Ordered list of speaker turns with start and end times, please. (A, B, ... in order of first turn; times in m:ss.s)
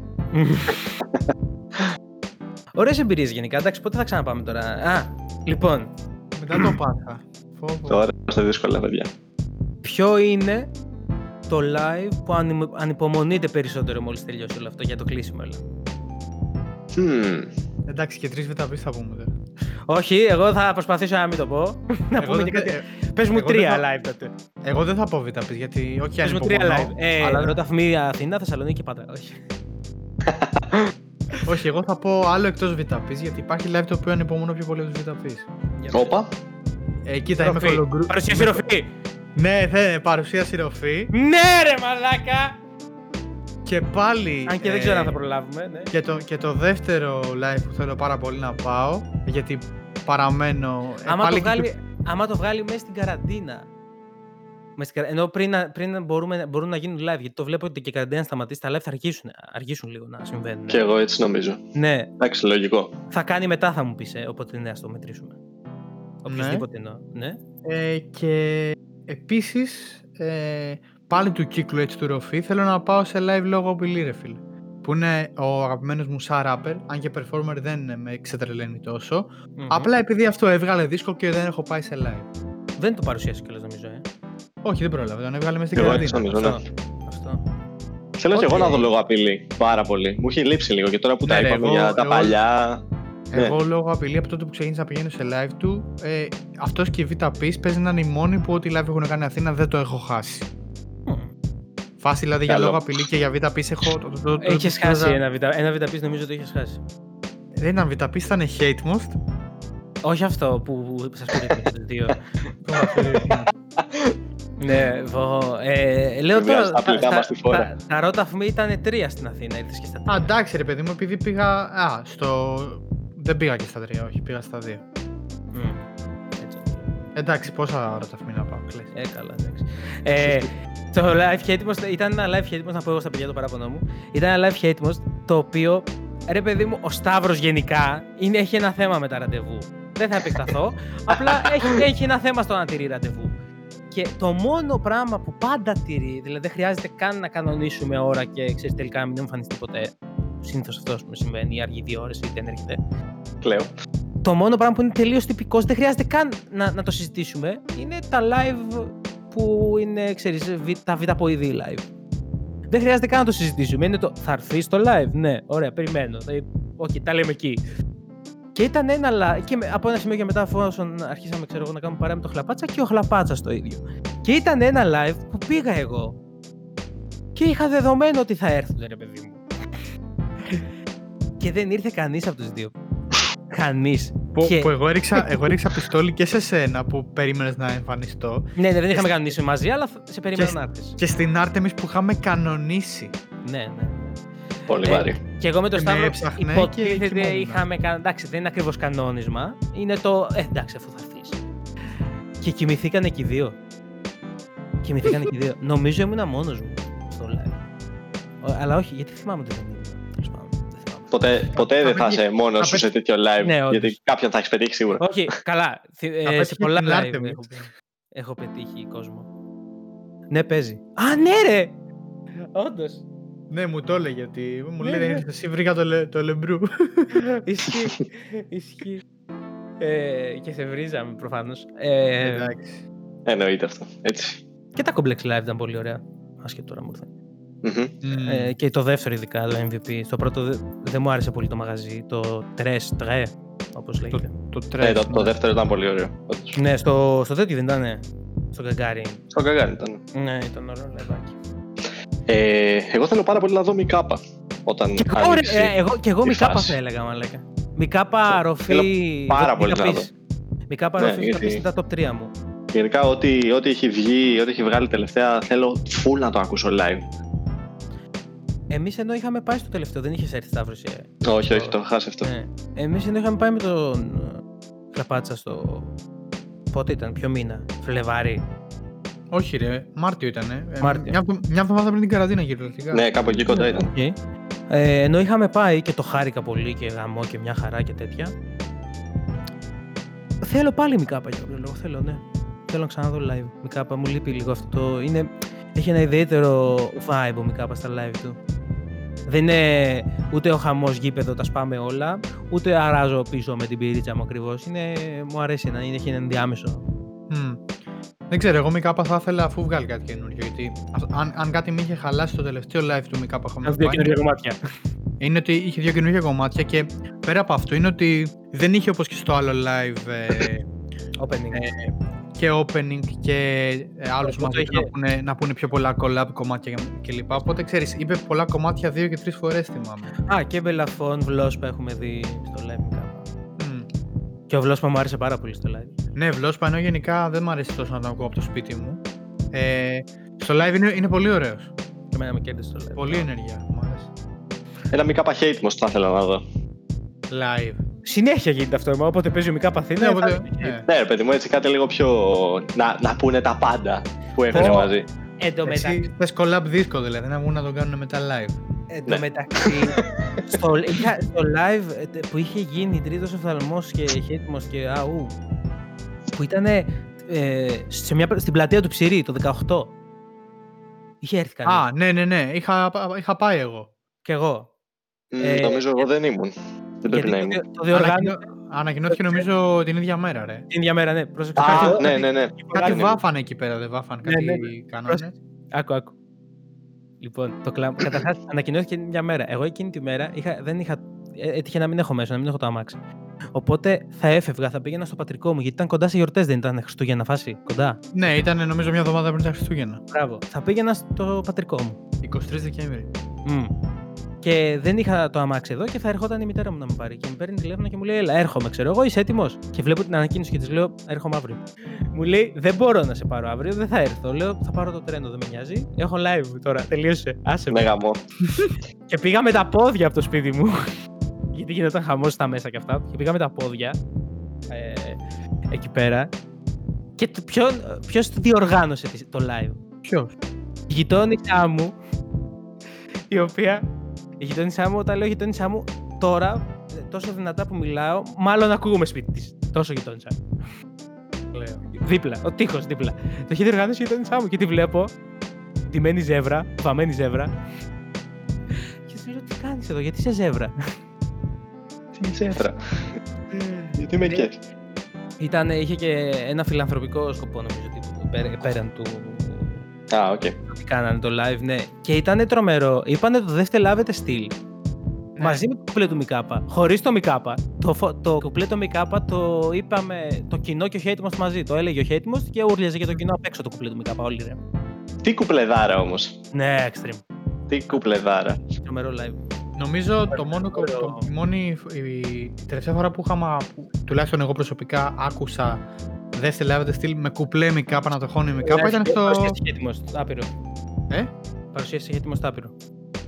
0:00.3-0:00.9 A
0:02.8-0:05.9 A
0:06.3-0:08.0 B
0:07.9-0:09.1 C
0:09.8-0:10.7 A
0:11.5-0:15.6 A
0:16.9-0:17.5 C
0:17.9-0:19.3 B
0:19.9-0:24.3 A
0:22.2-0:23.8 B
0:24.6-0:27.6 B
0:26.2-0:29.4 A
0:30.2-0:30.9 C
0:31.4-0:35.5 B
0:35.8-0:36.1 A
0:35.9-0:36.3 C
0:37.0-0:38.6 B
0:37.4-0:38.9 A
0:39.4-0:41.1 B
0:41.1-0:42.5 A
0:43.6-0:45.2 B
0:44.5-0:45.9 A
0:45.9-0:51.7 B
0:51.1-0:53.7 A
0:54.8-1:00.9 A
1:00.7-1:01.6 C
1:01.7-1:02.1 A
1:02.2-1:03.0 C
1:03.1-1:05.4 A
1:06.2-1:07.4 A
1:06.3-1:06.6 B
1:07.6-1:22.3 B
1:19.6-1:19.9 A
1:22.8-1:24.0 A
1:24.6-1:26.5 B
1:25.8-1:26.6 C
1:25.8-1:27.4 A
1:28.2-1:32.8 C
1:28.3-1:28.9 A
1:31.2-1:32.4 B
1:33.3-1:40.5 B
1:41.0-1:41.3 A
1:42.0-1:45.2 B
1:42.5-1:42.8 C
1:44.4-1:46.8 A
1:47.6-1:49.2 B
1:50.0-1:52.2 A
1:51.3-1:51.7 C
1:52.6-1:53.5 B
1:52.8-1:54.1 C
1:54.6-2:00.3 A
1:56.3-1:57.7 C
2:00.1-2:04.8 B
2:05.5-2:05.8 A
2:06.4-2:06.9 A
2:07.1-2:08.9 B
2:08.9-2:23.3 A
2:21.1-2:21.8 C
2:23.9-2:32.8 A
2:33.4-2:33.7 C
2:34.2-2:41.8 A
2:42.7-2:47.6 A
2:48.5-2:56.2 A
2:57.3-2:59.4 A
3:01.4-3:02.7 A
3:03.5-3:04.7 A
3:04.3-3:09.1 B
3:08.6-3:11.0 A
3:10.3-3:13.1 B
3:13.4-3:14.2 A
3:14.7-3:15.2 C
3:14.8-3:21.4 A
3:15.7-3:17.6 B
3:22.4-3:23.6 A
3:24.8-3:27.6 A
3:28.4-3:31.4 A
3:31.1-3:35.1 C
3:31.5-3:32.8 B
3:33.4-3:34.0 A
3:35.0-3:39.3 A
3:36.2-3:37.6 B
3:40.3-3:41.8 A
3:42.5-3:43.0 A
3:43.5-3:47.2 B
3:44.8-3:45.2 A
3:47.1-3:49.0 A
3:49.8-3:52.5 A
3:52.2-3:52.8 B
3:53.2-3:54.4 C
3:54.8-3:57.1 A
3:57.6-3:57.9 C
3:58.0-3:58.5 B
3:58.3-4:04.3 A
4:04.1-4:05.4 B
4:04.8-4:06.6 C
4:06.6-4:09.2 A
4:09.3-4:10.0 C
4:10.1-4:11.4 A
4:12.3-4:15.7 C
4:15.0-4:20.1 A
4:16.2-4:16.8 C
4:18.3-4:20.1 C
4:20.7-4:22.3 A
4:21.0-4:21.6 C
4:22.7-4:27.1 C
4:28.7-4:35.9 A
4:31.2-4:32.3 C
4:36.7-4:38.4 A
4:39.3-4:43.1 B
4:40.8-4:41.2 A
4:42.9-4:43.9 C
4:43.4-4:44.2 A
4:44.7-4:48.3 A
4:50.4-4:58.4 A
4:59.3-5:06.8 A
5:07.3-5:07.6 B
5:08.3-5:14.1 B
5:13.6-5:14.6 A
5:15.2-5:20.7 B
5:21.2-5:21.7 A
5:21.5-5:30.1 B
5:24.2-5:24.9 A
5:30.3-5:33.3 A
5:33.6-5:33.9 B
5:34.5-5:35.9 A
5:36.1-5:41.7 B
5:42.1-5:43.3 A
5:43.0-5:44.1 B
5:44.9-5:46.4 C
5:47.3-5:47.8 B
5:48.0-5:50.7 A
5:50.0-5:50.8 B
5:50.9-5:55.1 C
5:54.5-5:56.0 A
5:54.5-5:54.9 B
5:55.6-5:58.6 B
5:58.9-6:00.0 A
5:59.1-6:00.5 C
6:00.5-6:05.3 A
6:06.4-6:09.9 A
6:11.2-6:11.8 A
6:11.6-6:13.9 B
6:14.2-6:14.7 A
6:15.3-6:17.6 C
6:15.4-6:16.1 A
6:17.1-6:18.4 A
6:17.9-6:20.6 B
6:19.1-6:19.4 A
6:20.7-6:23.0 A
6:21.6-6:23.2 C
6:21.6-6:25.3 B
6:24.2-6:26.1 A
6:27.2-6:33.0 A
6:33.5-6:38.4 A
6:38.1-6:40.0 B
6:40.1-6:42.0 A
6:42.2-6:43.1 B
6:43.4-6:43.7 A
6:44.4-6:57.9 A
6:57.7-6:58.2 C
6:59.1-7:00.8 A
7:01.5-7:04.0 A
7:04.7-7:05.2 A
7:05.7-7:06.3 A
7:07.2-7:09.8 A
7:10.0-7:10.3 B
7:10.9-7:11.9 A
7:13.3-7:13.8 A
7:14.4-7:20.4 A
7:21.5-7:21.8 B
7:22.0-7:25.1 A
7:25.8-7:27.5 A
7:29.0-7:30.7 A
7:32.1-7:33.2 C
7:33.5-7:34.4 A
7:34.0-7:34.6 C
7:35.4-7:39.8 A
7:40.1-7:40.6 C
7:40.7-7:44.5 A
7:45.4-7:45.6 B
7:45.4-7:54.6 A
7:55.2-7:56.4 C
7:56.5-7:57.2 A
7:57.7-7:58.6 C
7:58.7-7:59.4 A
7:59.8-8:05.8 B
8:00.3-8:01.3 A
8:06.3-8:09.6 B
8:08.7-8:10.5 A
8:11.7-8:12.7 A